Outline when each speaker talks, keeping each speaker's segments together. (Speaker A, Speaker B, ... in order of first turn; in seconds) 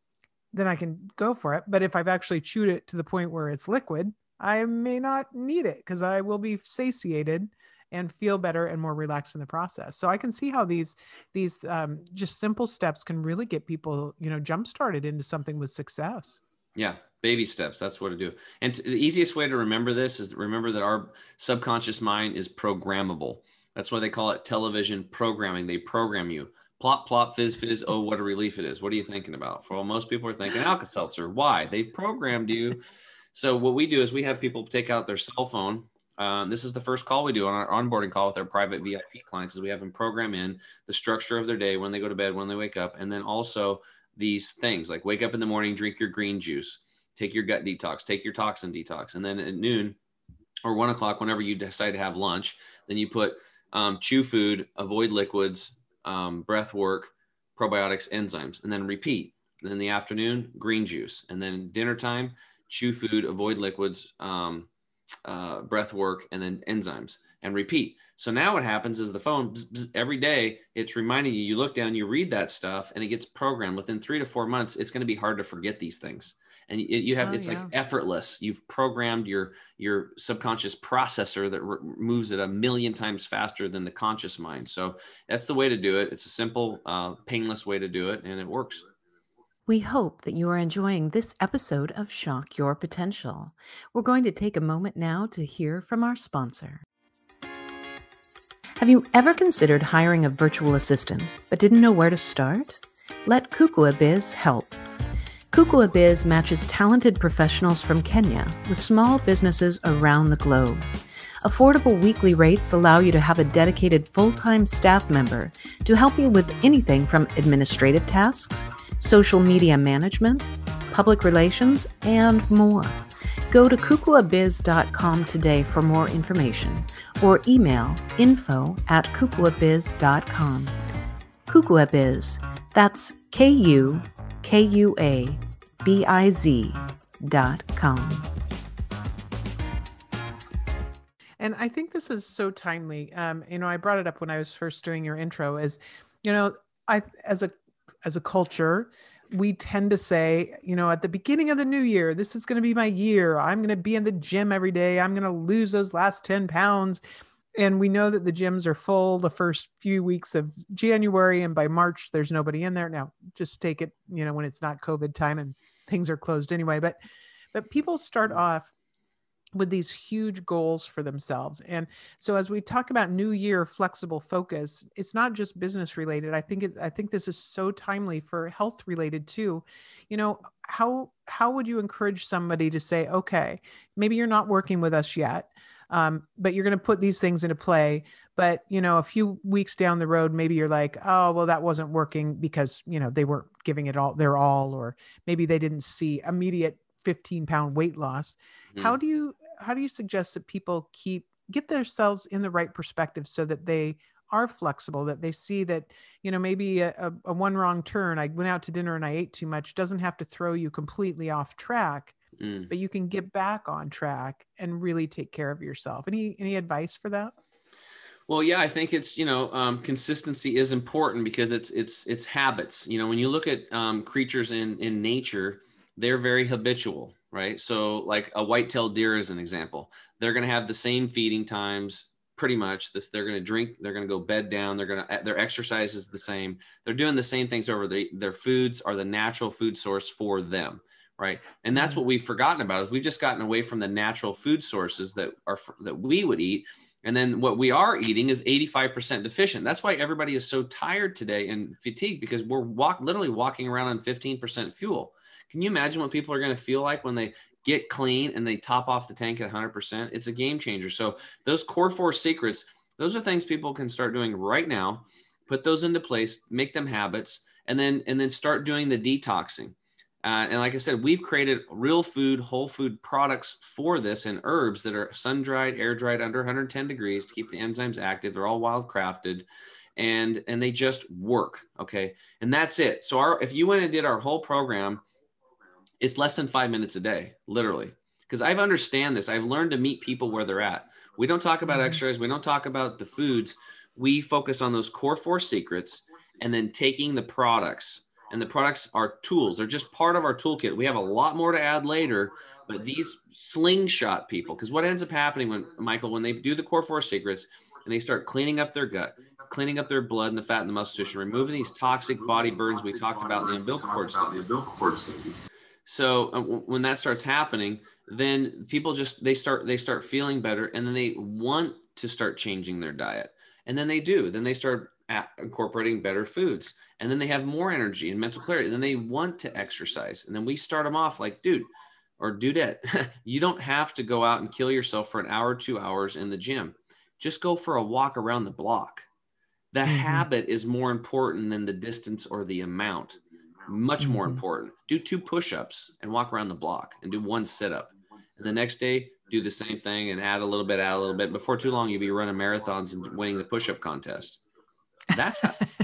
Speaker A: 0.5-16.4, 77.2-77.7, 141.4-147.5, 148.0-157.0, 157.6-167.0, 167.5-168.7, 169.6-212.2, 212.7-217.3, 241.7-242.0, 291.6-292.0, 339.9-340.2, 344.0-344.4
Speaker B: 16.8-32.8, 33.3-50.0, 50.6-64.7, 65.3-88.9, 212.4-212.7, 218.3-285.0, 286.0-314.6, 315.9-339.1, 339.7-354.4, 355.1-355.7
Speaker C: 89.7-96.8, 98.8-104.8, 105.5-110.9, 111.4-130.7, 131.5-138.3